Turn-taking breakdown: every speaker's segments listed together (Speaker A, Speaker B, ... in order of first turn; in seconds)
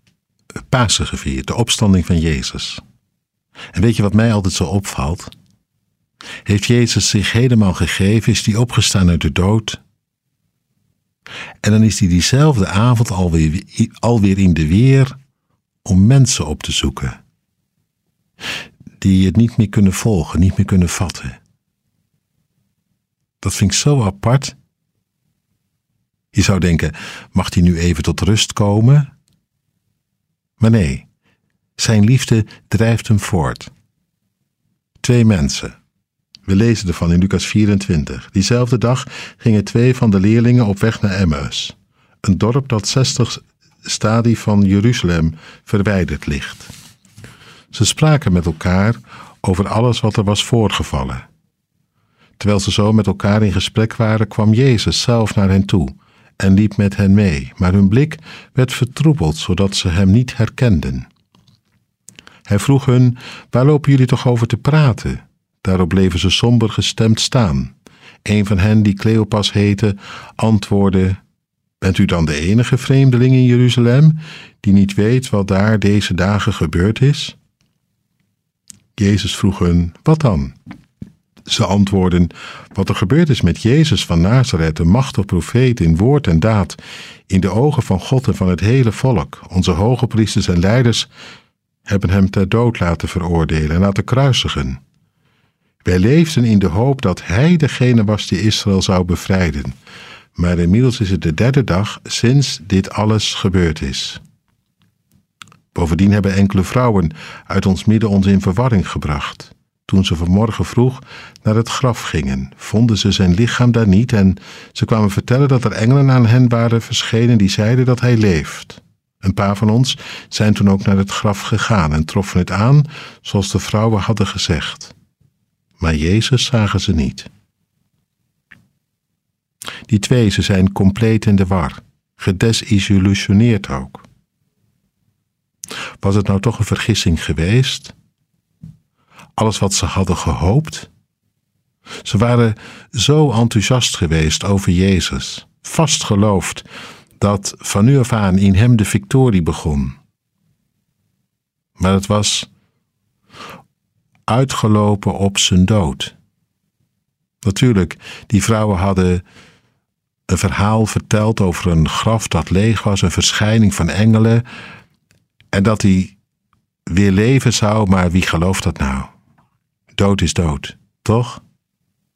Speaker A: 0.7-2.8, 3.7-5.3, 6.5-9.8, 11.6-15.2, 15.8-17.2, 19.0-21.4, 23.4-24.6, 26.3-29.1, 30.6-31.1, 31.8-33.7, 35.0-35.8, 36.5-46.7, 47.7-51.3, 52.4-61.1, 62.5-67.7, 68.2-71.2, 71.8-77.4, 79.0-80.6, 81.5-91.1, 91.9-94.8, 95.8-99.8, 100.4-104.2, 105.7-124.9, 125.8-127.3, 129.9-134.0, 136.0-137.9, 139.4-140.9, 142.0-146.7, 147.2-150.0, 151.8-152.5, 154.3-156.2, 157.4-159.2, 160.3-164.4, 165.5-166.2, 166.9-169.1, 169.9-171.4